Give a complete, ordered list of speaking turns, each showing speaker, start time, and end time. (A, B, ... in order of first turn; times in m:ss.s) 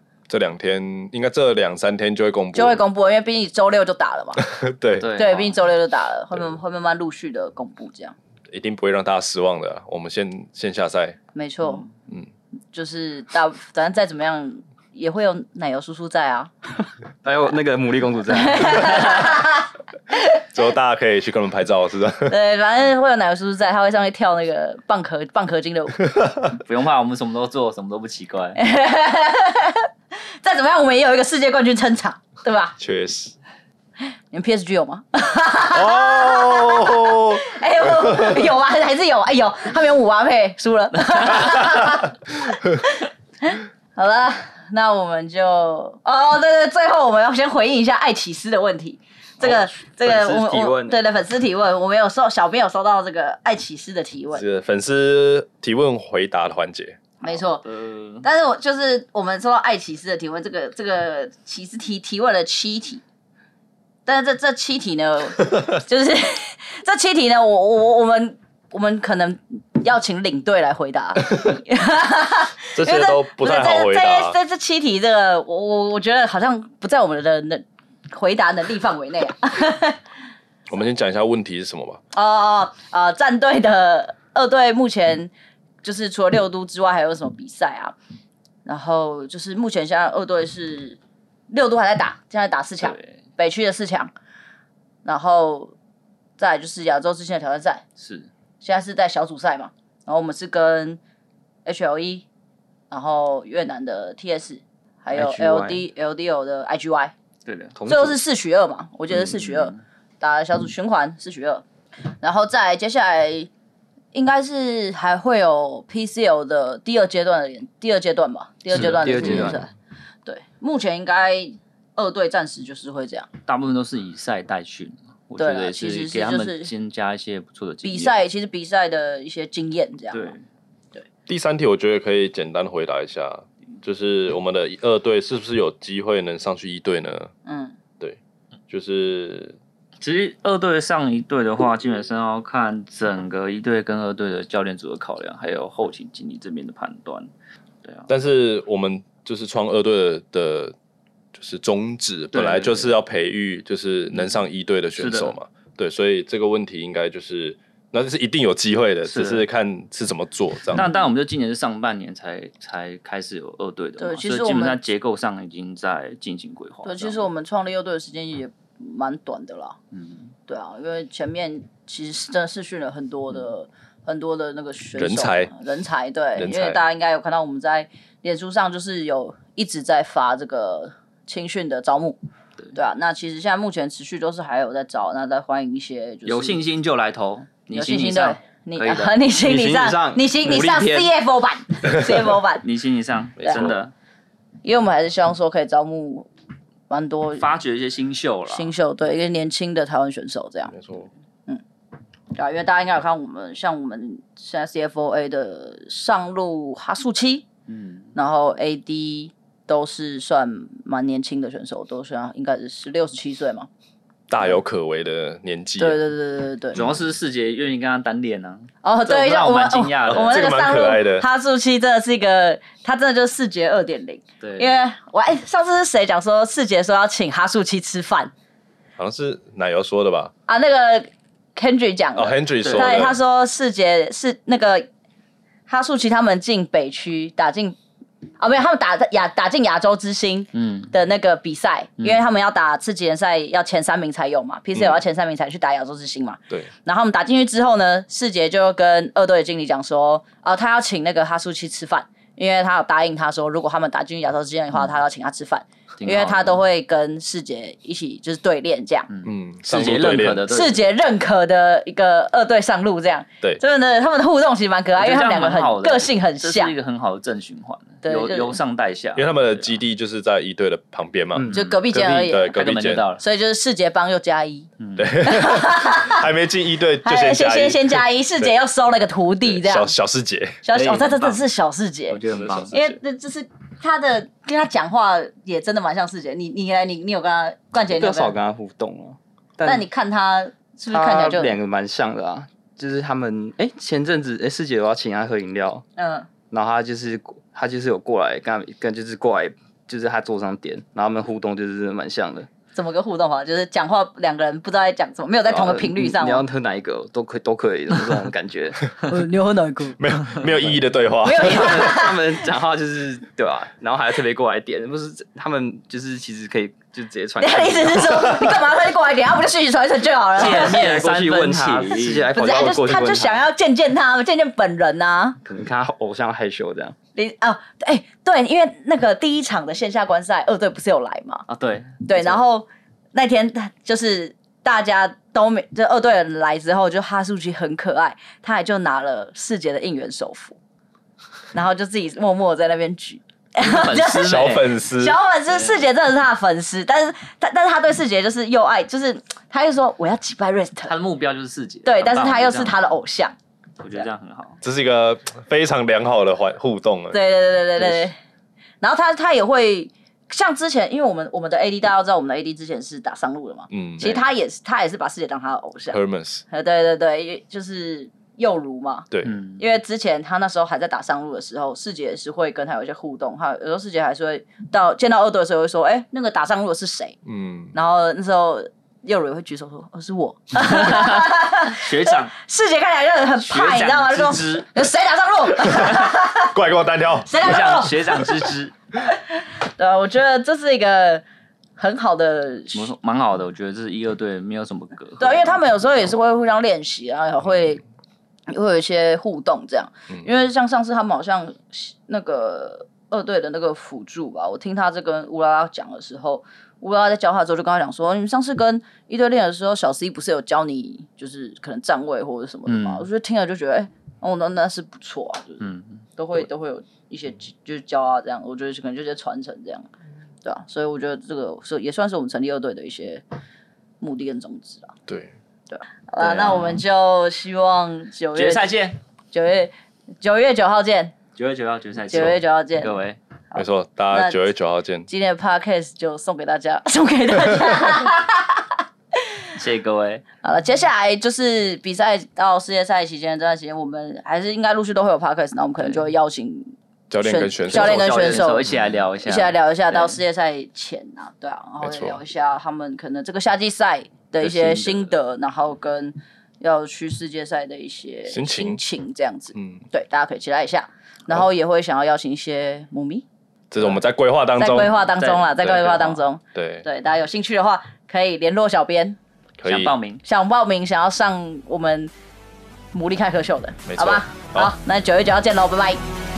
0:00.3-0:02.8 A
0:02.5-0:04.4 B
0:04.4-0:05.1 A
0:05.0-0:05.6 C
0:05.1-0:08.2 B
0:08.5-0:11.2 A
0:11.3-0:11.8 B
0:12.7-0:16.5 B
0:17.2-0:19.2 D
0:18.5-0:20.1 B
0:20.5-0:22.3 A
0:22.3-0:26.0 B
0:26.6-0:28.6 C
0:28.6-0:29.9 B
0:30.4-0:32.8 B
0:32.8-0:33.3 A
0:34.3-0:42.2 B
0:35.7-0:38.4 A
0:42.8-0:54.4 B
0:49.4-0:51.0 D
0:54.3-0:57.0 A
0:57.2-0:57.6 B
0:57.3-0:58.2 C
0:58.2-1:03.0 B
1:04.0-1:20.0 B
1:12.8-1:14.4 A
1:20.7-1:22.0 A
1:22.1-1:25.3 B
1:25.8-1:27.9 B
1:28.6-1:31.0 B
1:31.5-1:34.1 B
1:32.8-1:33.2 C
1:35.0-1:35.7 B
1:36.4-1:37.8 B
1:38.0-1:38.3 C
1:38.6-1:41.0 B
1:41.6-1:42.2 B
1:42.9-1:47.1 B
1:45.1-1:45.8 D
1:47.4-1:47.7 C
1:47.7-1:48.2 D
1:47.9-1:51.6 B
1:49.1-1:49.8 C
1:52.2-1:53.5 B
1:54.1-1:59.7 B
1:58.7-1:59.6 D
1:58.7-1:59.5 C
2:00.2-2:03.3 B
2:03.5-2:08.1 C
2:05.4-2:06.7 B
2:07.8-2:10.3 B
2:10.1-2:10.4 C
2:11.3-2:17.3 A
2:17.4-2:17.7 B
2:18.7-2:19.6 A
2:20.0-2:27.3 C
2:28.1-2:30.7 A
2:31.3-2:40.9 A
2:32.3-2:32.9 C
2:35.0-2:35.3 C
2:39.0-2:39.4 C
2:40.7-2:47.3 C
2:44.0-2:44.8 B
2:46.8-2:49.8 B
2:49.9-2:50.3 C
2:50.5-3:02.2 B
2:55.0-2:55.5 A
2:56.4-2:56.8 A
3:02.7-3:06.6 B
3:06.2-3:09.2 C
3:07.7-3:12.6 B
3:09.4-3:11.1 D
3:12.6-3:13.9 C
3:13.4-3:13.7 A
3:13.4-3:13.7 B
3:14.6-3:16.3 B
3:16.9-3:17.5 B
3:17.4-3:18.7 C
3:18.5-3:20.8 B
3:20.7-3:21.1 A
3:22.3-3:27.4 B
3:27.7-3:28.1 C
3:28.1-3:33.7 B
3:34.3-3:36.0 A
3:35.8-3:36.8 B
3:36.7-3:40.6 C
3:38.8-3:48.3 B
3:40.0-3:41.2 A
3:44.4-3:44.7 C
3:49.0-3:50.3 A
3:50.5-3:54.9 B
3:52.2-3:53.2 A
3:52.6-3:53.0 C
3:55.7-3:57.8 B
3:58.4-4:19.1 B
4:00.5-4:00.9 C
4:04.8-4:05.0 A
4:16.0-4:16.6 C
4:19.1-4:20.8 C
4:19.2-4:20.5 A
4:20.5-4:26.7 B
4:25.0-4:29.7 C
4:28.0-4:28.6 B
4:29.1-4:33.0 A
4:31.5-4:31.8 C
4:31.5-4:32.5 B
4:32.5-4:33.2 C
4:33.2-4:34.7 B
4:34.8-4:35.1 C
4:35.0-4:38.4 A
4:35.2-4:36.2 B
4:37.0-4:40.0 B
4:39.4-4:40.6 A
4:40.6-4:42.2 B
4:40.7-4:41.4 C
4:42.1-4:42.8 C
4:42.3-4:42.9 A
4:42.7-4:48.3 B
4:47.9-4:49.8 D
4:49.6-4:51.6 B
4:50.9-4:55.8 D
4:56.0-4:56.3 B
4:56.5-5:02.5 D
5:02.8-5:06.4 B
5:05.5-5:09.0 D
5:09.0-5:10.0 B
5:10.0-5:11.9 A
5:11.2-5:12.2 B
5:11.4-5:18.4 D
5:17.4-5:20.8 B
5:20.4-5:22.3 C
5:20.4-5:23.4 D
5:22.3-5:25.4 B
5:25.4-5:27.0 D
5:27.1-5:31.4 B
5:31.5-5:32.4 C
5:32.0-5:40.6 B
5:41.5-5:50.9 B
5:43.6-5:44.7 C
5:44.2-5:45.2 A
5:45.5-5:45.8 C
5:50.9-5:52.9 C
5:51.8-5:53.3 B
5:53.8-5:54.6 C
5:54.6-5:57.2 A
5:57.1-5:58.1 B
5:57.8-5:58.1 A
5:58.8-6:06.0 B
6:03.7-6:04.2 A
6:05.9-6:06.4 A
6:06.5-6:17.2 B
6:09.2-6:09.6 C
6:17.2-6:17.7 A
6:17.7-6:26.5 B
6:20.7-6:22.3 C
6:23.5-6:24.7 C
6:25.8-6:27.6 A
6:27.2-6:28.4 B
6:27.4-6:28.7 C
6:29.1-6:31.2 B
6:31.8-6:32.9 B
6:32.7-6:35.6 C
6:35.2-6:37.8 B
6:38.5-6:55.6 B
6:52.7-6:53.0 C
6:55.6-6:56.0 C
6:56.2-6:59.9 B
7:00.4-7:03.2 B
7:04.0-7:04.9 B
7:05.1-7:05.3 A
7:05.7-7:08.7 B
7:06.2-7:06.8 C
7:08.3-7:09.0 C
7:09.3-7:11.1 B
7:11.4-7:13.2 C
7:12.1-7:12.9 B
7:13.5-7:14.4 B
7:13.5-7:15.1 A
7:15.1-7:18.6 B
7:19.6-7:20.2 C
7:20.4-7:28.7 B
7:27.1-7:28.4 A
7:27.7-7:28.4 D
7:27.8-7:30.2 C
7:29.2-7:43.2 B
7:31.8-7:32.2 A
7:34.4-7:35.1 C
7:38.3-7:38.8 A
7:39.5-7:39.8 A
7:43.7-7:45.0 A
7:44.6-7:49.2 B
7:45.1-7:46.2 C
7:46.5-7:46.8 A
7:49.6-7:50.0 A
7:49.6-7:50.2 C
7:50.2-7:52.1 B
7:52.9-7:56.0 B
7:53.8-7:54.7 A